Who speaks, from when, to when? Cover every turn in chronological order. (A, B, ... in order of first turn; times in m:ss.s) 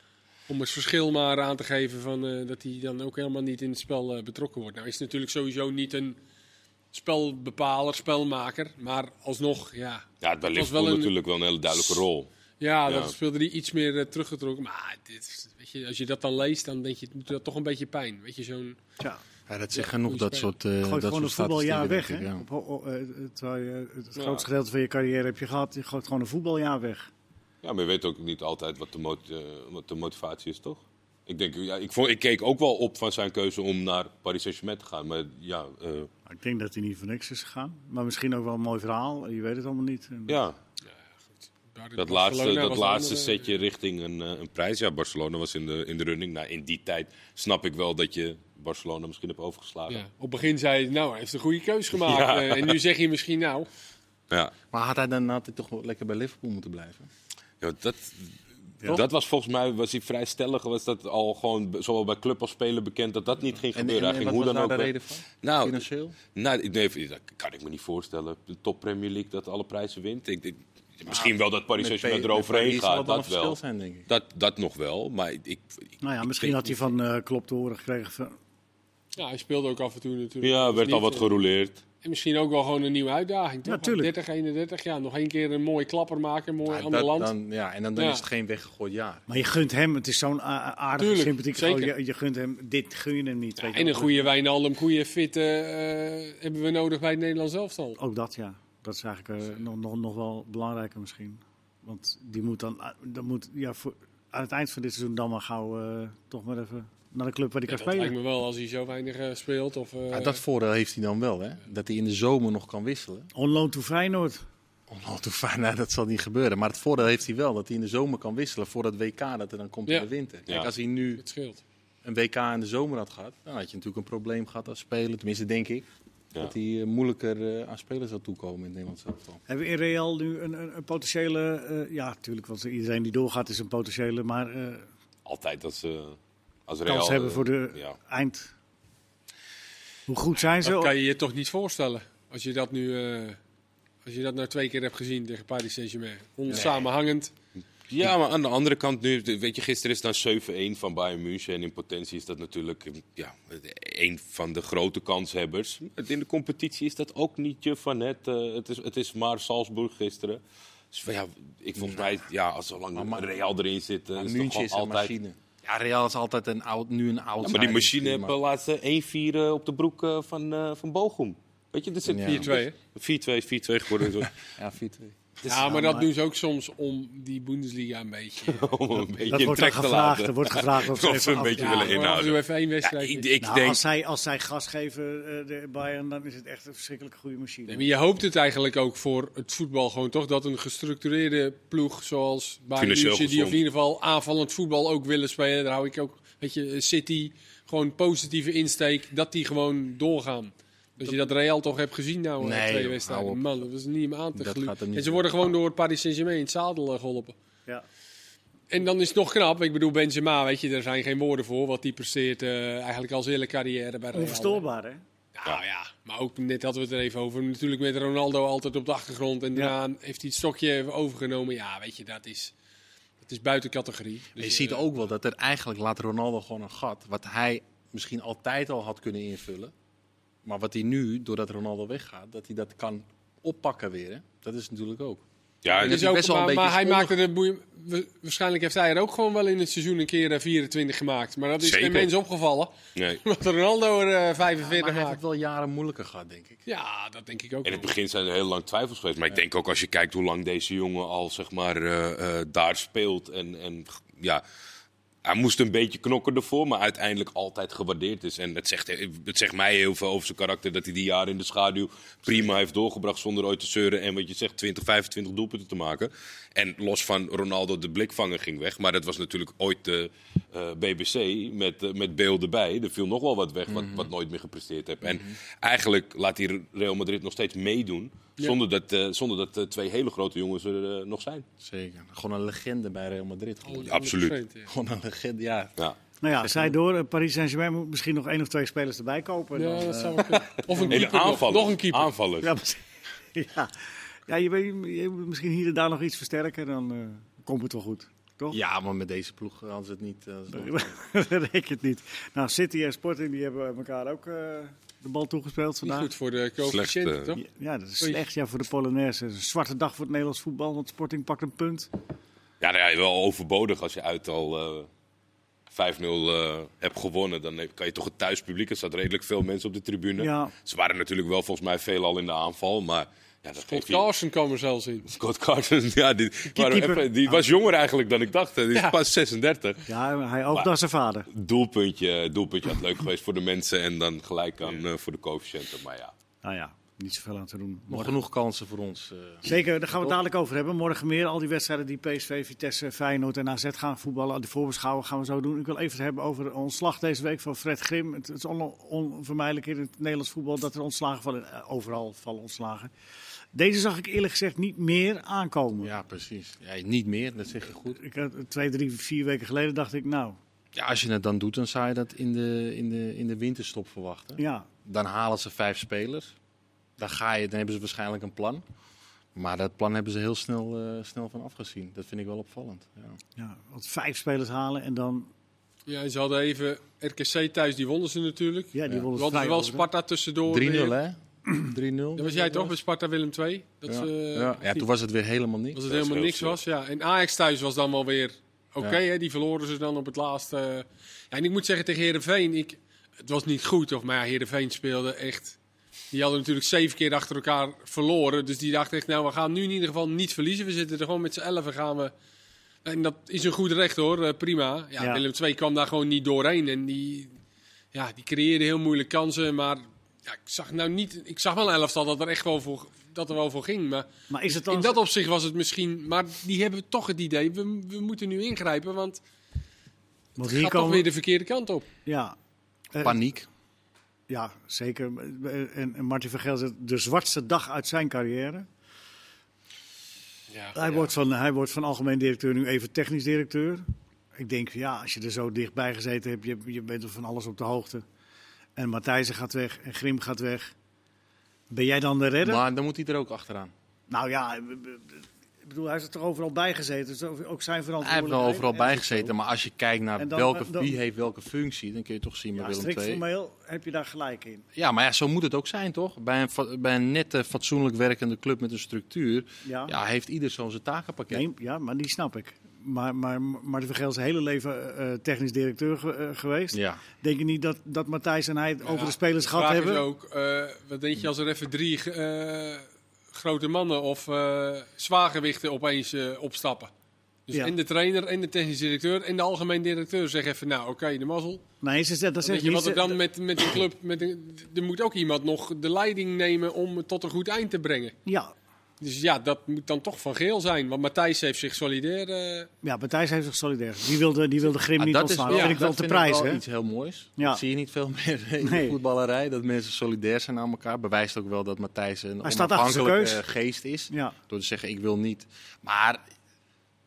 0:00.5-0:06.2 A
0:06.9-0:11.1 A
0:10.2-0:12.3 B
0:11.7-0:12.0 A
0:12.6-0:18.8 A
0:12.9-0:13.1 B
0:19.5-0:22.4 C
0:19.7-0:20.5 A
0:20.8-0:27.1 D
0:24.2-0:24.4 A
0:27.6-0:36.1 B
0:36.3-0:40.4 D
0:40.3-0:40.6 B
0:41.6-0:43.6 A
0:42.0-0:50.0 B
0:49.9-0:53.7 A
0:51.9-0:52.8 B
0:54.7-0:57.1 C
0:57.6-0:58.3 B
0:58.8-1:04.9 B
1:03.7-1:06.2 C
1:05.4-1:05.8 B
1:06.3-1:13.6 B
1:11.1-1:14.1 C
1:14.1-1:16.8 B
1:16.0-1:18.4 D
1:19.1-1:21.3 A
1:20.4-1:21.8 B
1:22.0-1:27.3 A
1:23.6-1:24.1 D
1:26.6-1:29.2 C
1:28.0-1:28.2 A
1:29.3-1:34.3 D
1:31.0-1:31.9 A
1:33.6-1:38.0 A
1:38.0-1:48.1 D
1:47.7-1:50.4 A
1:50.1-1:53.3 C
1:53.3-1:54.4 D
1:54.9-2:01.2 C
2:01.2-2:01.6 A
2:02.0-2:09.4 C
2:09.5-2:14.9 D
2:15.2-2:18.0 B
2:16.8-2:18.5 D
2:20.1-2:20.9 D
2:20.6-2:23.4 A
2:24.0-2:27.3 A
2:27.9-2:40.4 B
2:40.9-2:45.1 B
2:41.8-2:42.2 C
2:42.9-2:43.3 C
2:44.1-2:48.3 C
2:47.4-2:54.3 B
2:52.0-2:52.5 C
2:52.2-2:52.7 A
2:54.2-2:55.2 C
2:55.4-2:58.7 A
2:55.5-2:56.1 D
2:58.4-3:03.8 B
2:59.3-3:02.1 D
3:01.6-3:03.2 A
3:03.4-3:07.9 D
3:07.7-3:27.3 A
3:12.8-3:13.6 B
3:22.4-3:23.4 C
3:24.3-3:25.3 C
3:28.7-3:34.6 A
3:34.1-3:35.0 D
3:35.3-3:42.5 A
3:43.2-3:44.9 A
3:44.4-3:49.7 C
3:50.4-3:57.2 C
3:55.6-3:56.0 B
3:55.7-4:05.2 A
4:01.6-4:02.1 B
4:03.0-4:03.2 B
4:04.6-4:06.6 C
4:06.7-4:07.9 A
4:07.6-4:14.4 B
4:15.2-4:41.4 B
4:33.7-4:34.1 C
4:35.0-4:35.3 C
4:41.6-4:44.0 C
4:43.6-4:44.7 A
4:43.8-4:44.4 B
4:44.7-4:45.8 C
4:46.2-4:51.1 D
4:46.4-4:46.7 C
4:49.6-4:52.1 A
4:50.9-4:52.5 B
4:52.4-4:52.8 D
4:53.3-4:58.6 D
4:58.5-5:00.9 C
5:00.5-5:06.1 D
5:05.8-5:07.4 A
5:06.6-5:07.3 B
5:07.4-5:11.9 D
5:12.6-5:14.9 B
5:15.7-5:24.0 B
5:20.2-5:20.5 D
5:23.7-5:25.1 A
5:25.1-5:29.8 B
5:26.5-5:27.4 D
5:29.9-5:31.3 D
5:31.3-5:36.1 B
5:36.4-5:38.1 D
5:37.9-5:39.5 C
5:39.4-5:52.9 D
5:53.5-5:55.9 D
5:55.8-5:58.0 C
5:57.9-6:00.4 D
6:00.7-6:06.3 C
6:04.4-6:04.7 D
6:07.0-6:08.6 C
6:09.3-6:13.2 C
6:13.4-6:15.3 D
6:15.9-6:20.9 A
6:18.7-6:19.9 D
6:20.4-6:22.7 C
6:22.2-6:24.8 A
6:23.8-6:25.9 C
6:25.7-6:35.6 A
6:25.9-6:26.6 B
6:36.1-6:42.1 A
6:42.8-6:47.3 A
6:47.9-6:59.2 A
6:54.3-6:55.0 D
7:00.4-7:01.1 D
7:00.4-7:01.9 A
7:02.0-7:02.3 D
7:02.9-7:03.2 D
7:03.0-7:03.5 C
7:04.3-7:08.7 D
7:10.5-7:11.1 A
7:10.7-7:13.8 D
7:14.4-7:18.0 D
7:18.8-7:20.7 D
7:21.7-7:22.6 D
7:22.4-7:23.7 C
7:24.1-7:29.3 D
7:28.0-7:33.2 C
7:30.2-7:31.0 D
7:32.5-7:34.6 D
7:34.8-7:41.4 C
7:39.6-7:39.9 D
7:41.3-7:50.0 D
7:46.7-7:47.0 C
7:48.8-7:56.9 A
7:57.5-8:01.6 A
8:01.8-8:03.2 D
8:02.4-8:08.2 A
8:08.2-8:08.5 D
8:09.0-8:12.7 A
8:12.8-8:16.6 D
8:15.0-8:26.2 C
8:15.5-8:15.8 A
8:17.4-8:17.6 D
8:18.6-8:19.0 D
8:22.4-8:23.4 D
8:24.1-8:24.4 D